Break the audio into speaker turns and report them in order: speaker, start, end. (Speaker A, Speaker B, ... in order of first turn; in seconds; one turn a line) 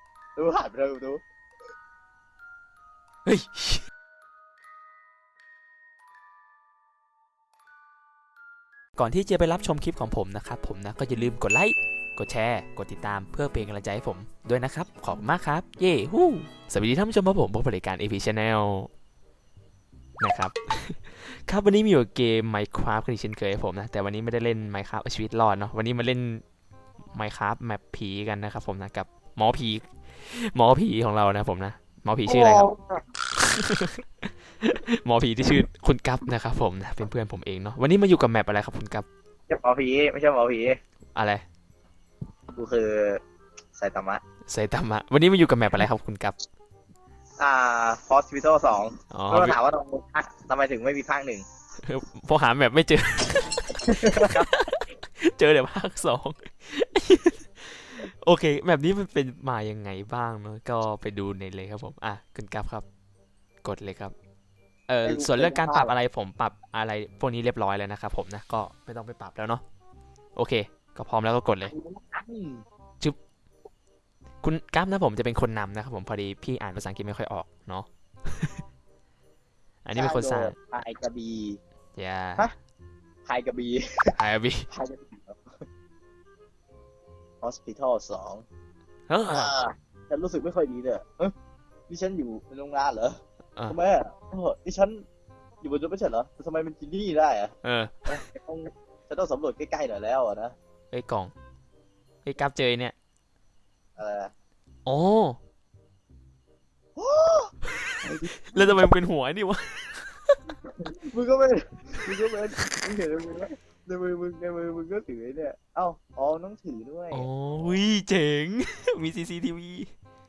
Speaker A: 0.3-1.2
Speaker B: 3.2-3.9
Speaker B: 9.0-18.9
Speaker B: 20.2-26.4
Speaker B: 27.1-32.7
Speaker A: 32.3-33.0
Speaker B: 33.3-39.0
Speaker A: 39.5-40.8
Speaker B: 41.1-41.4
Speaker A: 42.5-43.2
Speaker A: 43.8-44.2
Speaker B: 44.5-46.3
Speaker A: 47.4-51.5
Speaker B: 49.1-49.5
Speaker B: 51.8-62.8
Speaker A: 53.8-54.5
Speaker B: 63.6-64.1
Speaker B: 64.9-69.6
Speaker A: 65.0-65.9
Speaker B: 70.4-71.7
Speaker A: 71.7-72.7
Speaker B: 74.4-78.6
Speaker B: 79.8-80.5
Speaker A: 79.9-81.6
Speaker B: 82.0-82.5
Speaker A: 83.2-84.2
Speaker B: 84.2-84.7
Speaker A: 84.7-85.7
Speaker A: 87.4-88.5
Speaker B: 89.1-89.5
Speaker A: 89.3-91.3
Speaker A: 91.9-95.0
Speaker A: 95.6-100.5
Speaker B: 97.6-98.2
Speaker B: 100.9-101.3
Speaker B: 102.2-102.9
Speaker A: 104.0-104.3
Speaker B: 104.9-105.4
Speaker A: 107.0-108.8
Speaker B: 108.3-110.4
Speaker A: 110.8-117.8
Speaker B: 117.1-119.9